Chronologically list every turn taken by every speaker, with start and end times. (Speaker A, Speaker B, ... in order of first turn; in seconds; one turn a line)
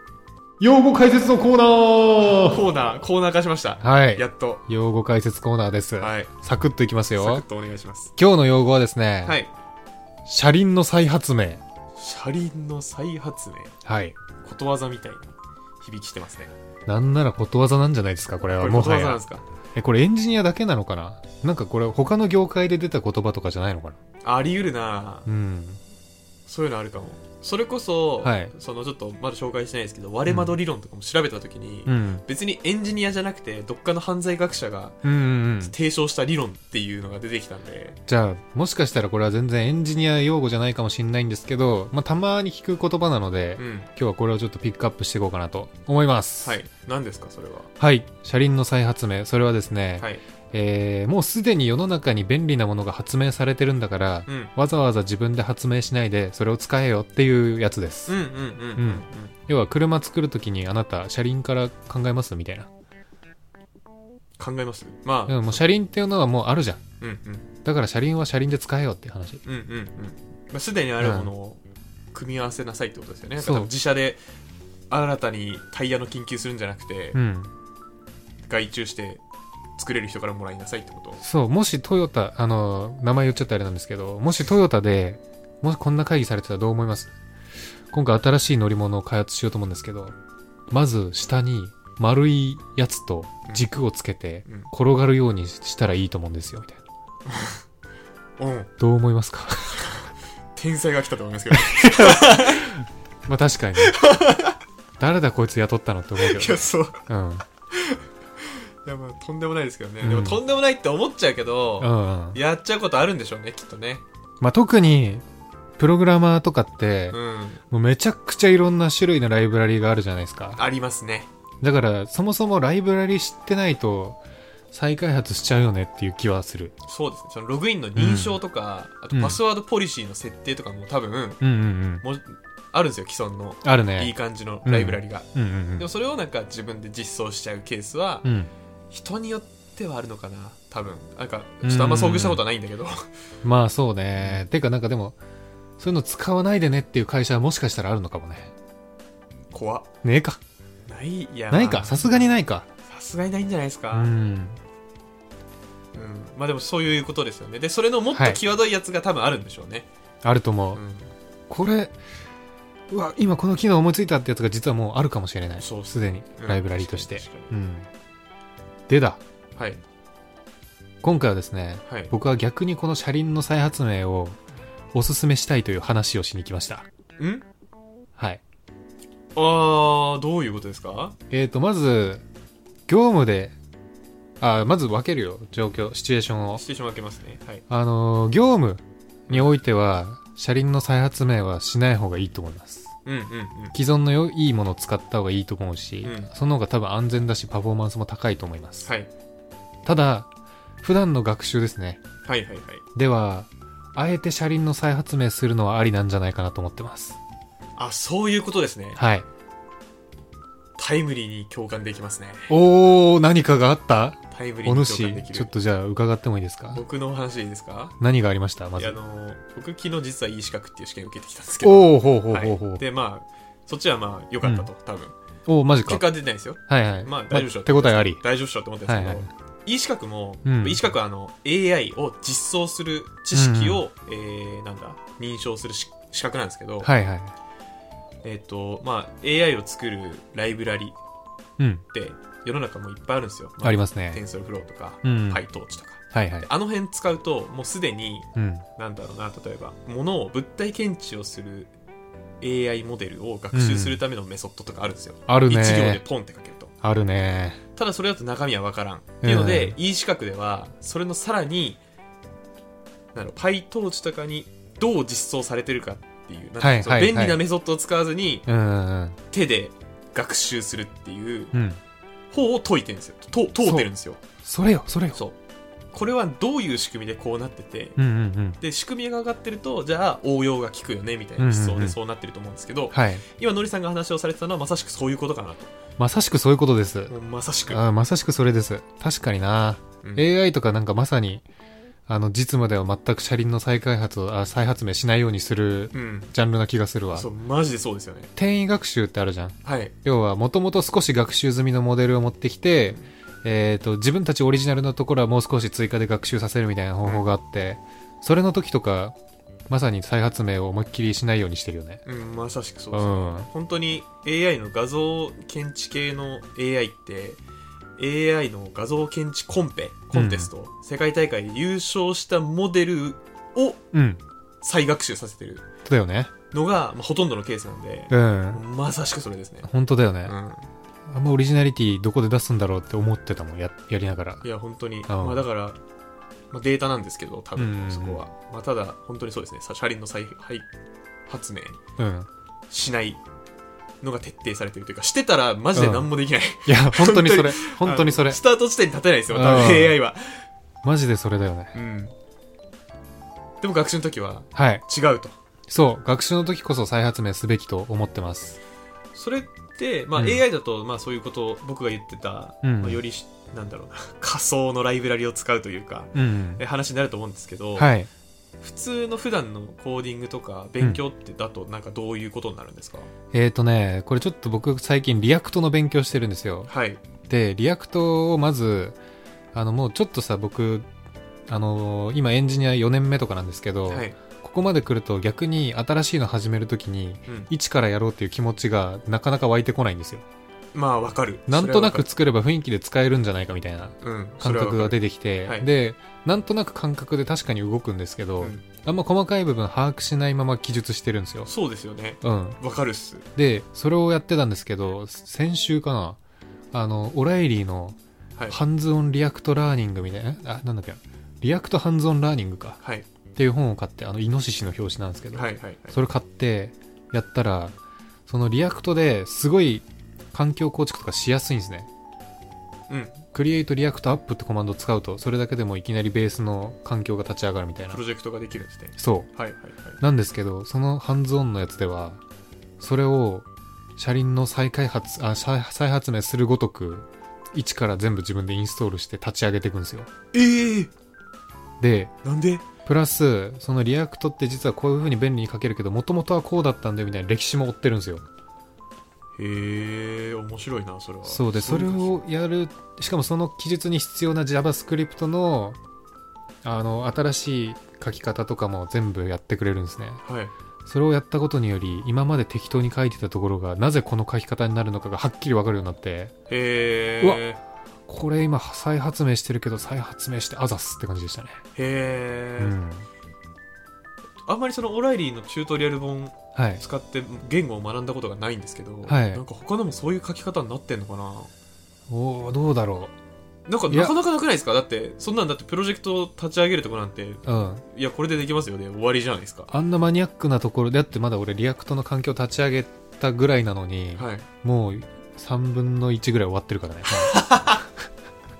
Speaker A: 0.6-2.6
Speaker B: 2.2-4.6
Speaker A: 3.8-7.4
Speaker B: 6.0-6.3
Speaker B: 7.2-8.1
Speaker A: 8.2-9.4
Speaker B: 9.2-9.5
Speaker A: 10.2-11.6
Speaker B: 12.0-13.8
Speaker A: 13.8-14.2
Speaker B: 14.4-16.5
Speaker A: 16.9-19.2
Speaker B: 18.6-19.4
Speaker A: 19.7-24.0
Speaker B: 24.2-25.3
Speaker A: 25.2-25.8
Speaker B: 26.4-35.0
Speaker A: 28.2-28.5
Speaker A: 30.2-30.6
Speaker A: 31.9-32.2
Speaker A: 35.0-35.7
Speaker B: 35.6-38.0
Speaker A: 38.1-46.6
Speaker B: 43.6-43.9
Speaker B: 46.4-47.7
Speaker A: 47.8-58.1
Speaker B: 54.3-54.5
Speaker B: 58.1-59.3
Speaker A: 58.8-62.7
Speaker B: 64.4-65.6
Speaker A: 65.3-66.8
Speaker B: 67.0-67.5
Speaker A: 67.6-69.4
Speaker B: 69.4-71.6
Speaker A: 71.0-71.3
Speaker B: 72.1-74.2
Speaker A: 73.4-73.7
Speaker B: 74.9-77.2
Speaker A: 77.1-77.5
Speaker B: 78.4-79.2
Speaker B: 79.8-81.2
Speaker A: 81.2-87.1
Speaker A: 87.9-90.2
Speaker A: 90.7-96.8
Speaker B: 94.5-94.7
Speaker B: 97.2-97.6
Speaker B: 98.4-98.7
Speaker A: 98.8-99.8
Speaker B: 99.9-102.7
Speaker A: 101.5-104.0
Speaker B: 103.8-104.5
Speaker A: 105.0-107.4
Speaker B: 106.2-107.0
Speaker B: 107.7-108.0
Speaker B: 108.8-114.0
Speaker A: 110.0-110.4
Speaker A: 111.8-112.4
Speaker A: 114.4-115.2
Speaker A: 115.8-117.2
Speaker B: 117.1-117.6
Speaker A: 117.7-120.6
Speaker B: 120.5-121.3
Speaker A: 121.6-124.2
Speaker A: 124.7-126.7
Speaker B: 126.8-131.4
Speaker A: 128.0-128.4
Speaker A: 129.1-129.4
Speaker A: 131.4-132.0
Speaker B: 132.0-138.3
Speaker A: 133.6-135.9
Speaker A: 138.2-138.5
Speaker B: 138.9-143.1
Speaker A: 141.6-142.4
Speaker A: 143.4-145.2
Speaker A: 145.8-148.5
Speaker B: 149.5-149.9
Speaker A: 150.0-150.4
Speaker B: 150.9-152.3
Speaker A: 151.5-152.7
Speaker B: 152.8-154.1
Speaker A: 153.9-154.6
Speaker B: 155.9-159.9
Speaker A: 158.1-158.4
Speaker A: 160.2-160.8
Speaker B: 160.7-161.1
Speaker A: 161.5-162.0
Speaker A: 162.9-167.9
Speaker B: 165.6-167.5
Speaker A: 168.9-169.2
Speaker B: 169.6-169.8
Speaker A: 171.0-174.4
Speaker B: 171.8-172.1
Speaker A: 174.9-176.9
Speaker B: 177.2-177.4
Speaker A: 178.2-178.4
Speaker B: 179.3-181.2
Speaker A: 181.3-182.2
Speaker A: 182.9-183.6
Speaker A: 184.4-186.6
Speaker B: 186.6-187.6
Speaker A: 187.7-192.9
Speaker B: 193.0-193.7
Speaker A: 193.7-198.9
Speaker B: 196.0-196.3
Speaker A: 199.8-200.3
Speaker A: 200.8-202.0
Speaker B: 202.2-202.8
Speaker A: 202.9-207.2
Speaker B: 207.8-209.0
Speaker A: 208.9-209.2
Speaker B: 210.8-212.5
Speaker A: 212.5-216.8
Speaker B: 214.3-215.5
Speaker B: 216.7-217.9
Speaker A: 218.0-219.0
Speaker B: 218.8-225.1
Speaker A: 221.6-222.8
Speaker A: 224.4-224.7
Speaker A: 225.5-228.2
Speaker B: 225.8-236.9
Speaker A: 228.8-229.3
Speaker A: 230.4-230.8
Speaker A: 233.3-233.8
Speaker A: 236.8-237.3
Speaker B: 238.2-241.0
Speaker A: 241.6-241.8
Speaker B: 241.9-251.7
Speaker A: 243.6-244.2
Speaker A: 245.0-245.4
Speaker A: 246.1-246.5
Speaker A: 248.3-248.6
Speaker B: 252.4-256.7
Speaker A: 253.5-254.0
Speaker A: 255.3-256.0
Speaker A: 256.8-257.6
Speaker B: 257.8-261.8
Speaker A: 259.2-259.8
Speaker B: 263.1-268.5
Speaker A: 266.6-267.4
Speaker A: 268.5-269.2
Speaker B: 269.3-271.5
Speaker A: 271.5-271.8
Speaker B: 272.3-274.2
Speaker A: 273.6-273.9
Speaker A: 274.4-275.2
Speaker B: 275.9-278.0
Speaker A: 278.0-278.6
Speaker B: 278.6-285.7
Speaker A: 281.4-282.0
Speaker A: 282.9-283.2
Speaker A: 286.0-287.1
Speaker B: 287.1-287.8
Speaker A: 287.7-291.4
Speaker A: 292.1-297.3
Speaker B: 295.9-296.3
Speaker B: 297.1-298.3
Speaker A: 298.4-309.1
Speaker B: 299.6-299.9
Speaker A: 309.7-312.0
Speaker B: 312.1-317.4
Speaker A: 312.9-313.5
Speaker B: 318.0-323.8
Speaker A: 320.1-320.5
Speaker A: 323.9-324.2
Speaker B: 324.6-325.6
Speaker A: 325.8-326.3
Speaker B: 326.5-329.7
Speaker A: 328.1-328.6
Speaker A: 329.6-330.4
Speaker B: 330.2-330.7
Speaker A: 331.1-334.5
Speaker B: 334.4-335.8
Speaker A: 335.1-335.4
Speaker B: 336.5-340.7
Speaker A: 337.6-338.2
Speaker B: 341.3-341.8
Speaker A: 342.0-342.3
Speaker B: 342.7-343.2
Speaker B: 344.0-350.4
Speaker A: 345.7-348.4
Speaker A: 349.3-350.0
Speaker A: 350.8-351.8
Speaker B: 351.7-352.1
Speaker B: 353.6-355.4
Speaker A: 354.5-354.8
Speaker A: 355.7-358.6
Speaker B: 359.1-367.9
Speaker A: 360.1-360.4
Speaker A: 362.6-363.0
Speaker A: 366.1-366.6
Speaker A: 367.8-368.1
Speaker B: 368.6-373.1
Speaker A: 373.3-376.7
Speaker B: 376.7-377.0
Speaker A: 377.3-379.0
Speaker A: 379.5-380.9
Speaker A: 381.5-390.2
Speaker B: 383.9-384.1
Speaker B: 390.7-392.1
Speaker A: 391.5-401.5
Speaker B: 394.0-395.7
Speaker B: 398.4-398.6
Speaker B: 401.4-403.2
Speaker A: 402.2-402.6
Speaker A: 403.3-406.2
Speaker A: 406.7-408.0
Speaker A: 408.5-412.8
Speaker A: 413.3-417.8
Speaker B: 415.3-416.0
Speaker A: 418.3-421.9
Speaker B: 422.9-423.2
Speaker A: 423.3-428.0
Speaker B: 427.9-430.0
Speaker A: 429.0-429.3
Speaker A: 430.0-432.2
Speaker A: 432.8-440.1
Speaker B: 440.3-440.9
Speaker A: 441.8-442.1
Speaker B: 442.2-442.7
Speaker A: 442.9-448.2
Speaker B: 449.4-452.2
Speaker A: 451.2-455.8
Speaker A: 456.6-460.2
Speaker B: 460.2-460.5
Speaker A: 460.9-466.3
Speaker B: 466.5-467.6
Speaker A: 468.1-471.6
Speaker B: 471.7-472.8
Speaker A: 472.6-473.1
Speaker B: 474.4-481.5
Speaker A: 476.5-476.8
Speaker A: 479.0-479.4
Speaker A: 482.1-483.1
Speaker B: 483.7-489.7
Speaker A: 483.9-484.1
Speaker A: 487.4-487.8
Speaker A: 489.7-497.4
Speaker B: 494.1-494.5
Speaker B: 497.1-497.8